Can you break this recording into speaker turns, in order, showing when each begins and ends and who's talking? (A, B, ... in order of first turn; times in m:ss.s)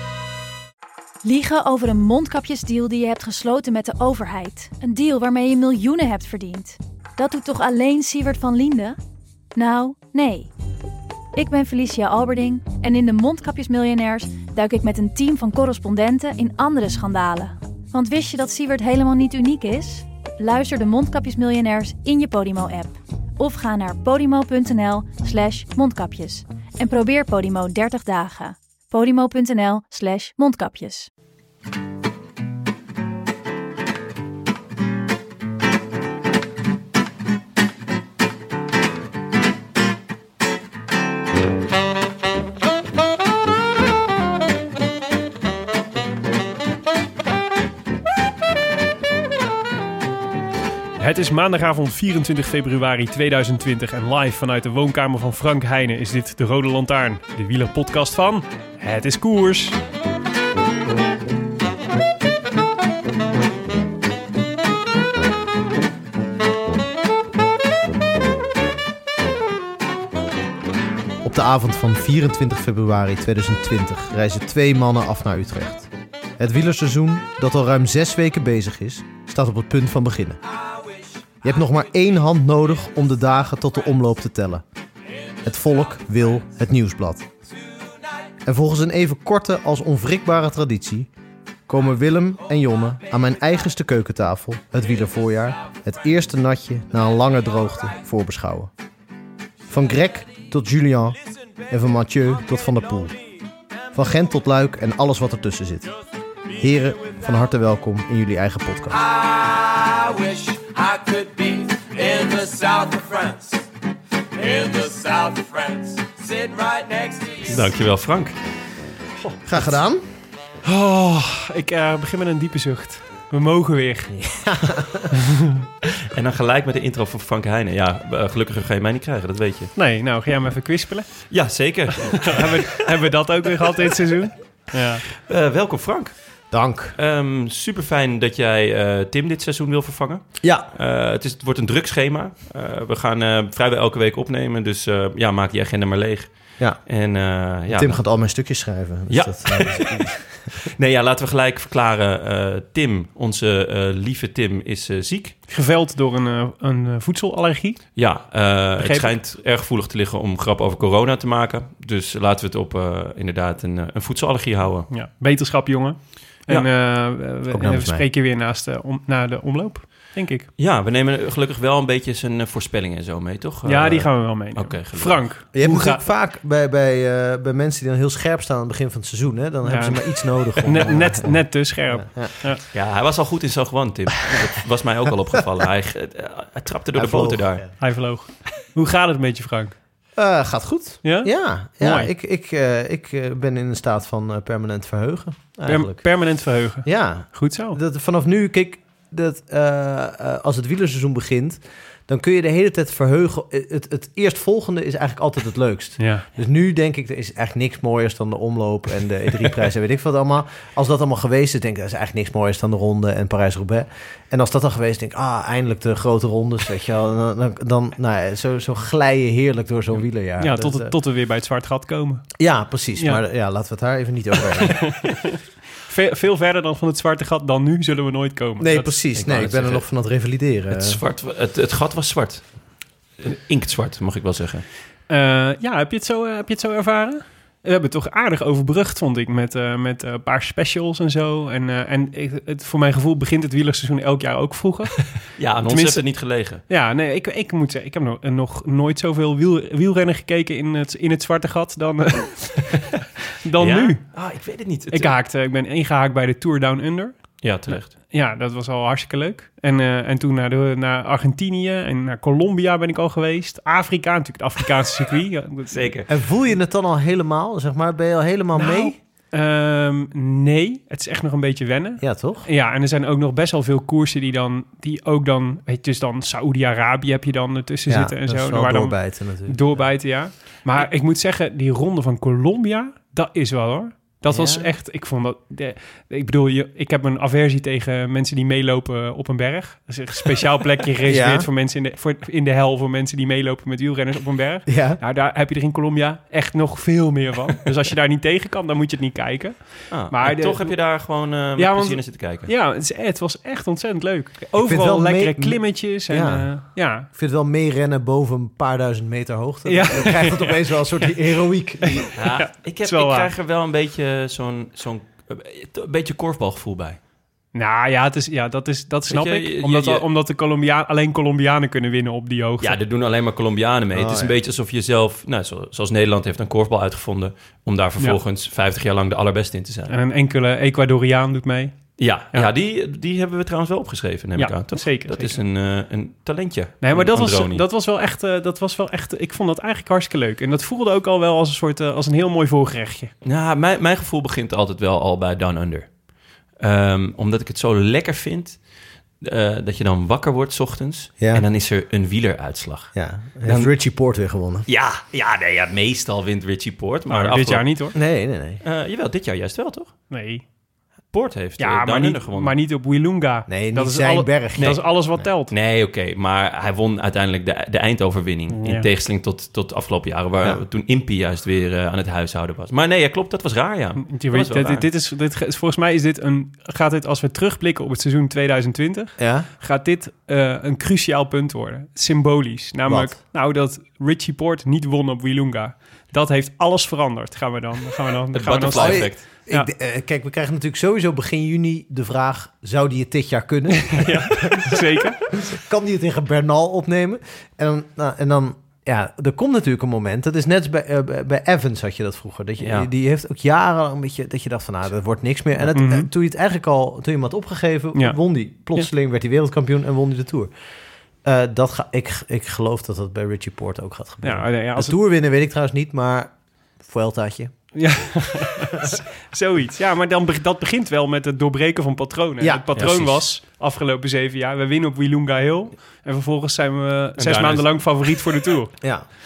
0:01.2-0:09.0 A
0:09.5-0:10.5 A
0:11.3-0:31.1 A
0:51.0-0:59.8 B
1:11.2-1:20.4 C
1:20.7-1:21.0 D
1:21.4-1:24.6 C
1:25.4-1:27.3 C
1:28.4-1:31.1 C
1:31.7-1:38.7 C
1:39.7-1:43.2 C
1:43.9-1:45.9 C
1:46.6-1:49.0 C
1:48.9-1:53.7 D
1:54.3-1:57.7 D
1:57.5-1:58.4 E
1:59.4-2:00.0 C
2:00.6-2:04.2 B
2:04.1-2:05.1 C
2:05.1-2:05.6 B
2:06.0-2:09.7 E
2:09.8-2:11.1 B
2:11.3-2:12.7 E
2:12.0-2:15.0 B
2:15.2-2:16.1 E
2:16.5-2:17.0 C
2:17.0-2:26.3 E
2:20.4-2:20.7 C
2:26.8-2:28.0 E
2:27.7-2:30.2 C
2:29.1-2:35.4 E
2:35.5-2:37.8 B
2:38.0-2:44.9 E
2:38.8-2:39.1 B
2:44.9-2:50.5 B
2:47.5-2:48.0 C
2:50.6-2:55.2 E
2:53.6-2:56.0 B
2:55.5-3:02.3 C
2:59.6-3:00.0 B
3:00.6-3:02.6 B
3:02.7-3:07.6 E
3:06.9-3:07.7 C
3:07.8-3:09.7 B
3:10.2-3:16.0 C
3:11.0-3:12.1 B
3:15.6-3:17.8 B
3:16.8-3:40.9 C
3:26.0-3:26.2 B
3:40.4-3:42.3 B
3:42.4-3:44.9 C
3:44.7-3:45.3 B
3:45.9-3:48.9 B
3:48.6-3:51.0 C
3:49.2-3:49.8 E
3:50.7-3:52.5 E
3:53.2-3:54.6 E
3:55.1-4:05.0 B
4:05.4-4:06.6 E
4:05.6-4:06.0 B
4:06.7-4:12.8 B
4:13.4-4:14.0 B
4:13.6-4:15.2 E
4:14.9-4:17.2 B
4:17.4-4:17.9 E
4:17.7-4:25.9 B
4:25.7-4:26.1 E
4:26.1-4:29.0 C
4:28.6-5:00.7 B
4:32.0-4:32.5 C
4:37.9-4:39.8 C
4:44.3-4:44.7 C
4:51.0-4:51.5 C
4:54.7-4:55.0 C
4:59.9-5:02.5 E
5:01.6-5:07.1 B
5:04.6-5:06.5 C
5:07.1-5:12.1 C
5:09.6-5:10.6 B
5:12.0-5:13.3 B
5:12.1-5:17.0 E
5:17.5-5:22.8 B
5:19.1-5:20.0 E
5:22.6-5:29.9 E
5:23.9-5:24.4 C
5:29.9-5:31.7 B
5:32.0-5:37.6 E
5:34.4-5:35.4 B
5:36.8-5:43.1 B
5:43.2-5:45.9 E
5:46.6-5:48.6 E
5:49.2-5:53.7 E
5:52.9-5:54.7 C
5:54.7-5:57.7 E
5:57.1-5:57.9 B
5:57.9-5:58.6 C
5:58.6-5:59.9 E
6:00.1-6:00.4 B
6:01.1-6:02.5 E
6:01.6-6:05.5 B
6:03.5-6:05.2 C
6:05.5-6:14.9 E
6:08.5-6:08.9 B
6:14.0-6:29.7 B
6:19.2-6:19.5 C
6:22.9-6:23.2 C
6:28.3-6:29.2 E
6:28.7-6:50.5 C
6:33.9-6:35.2 B
6:42.6-6:42.9 E
6:45.7-6:46.1 B
6:51.2-6:57.5 C
6:54.2-6:55.0 B
6:57.7-7:08.7 B
7:02.8-7:03.2 E
7:07.2-7:07.7 E
7:08.8-7:09.1 C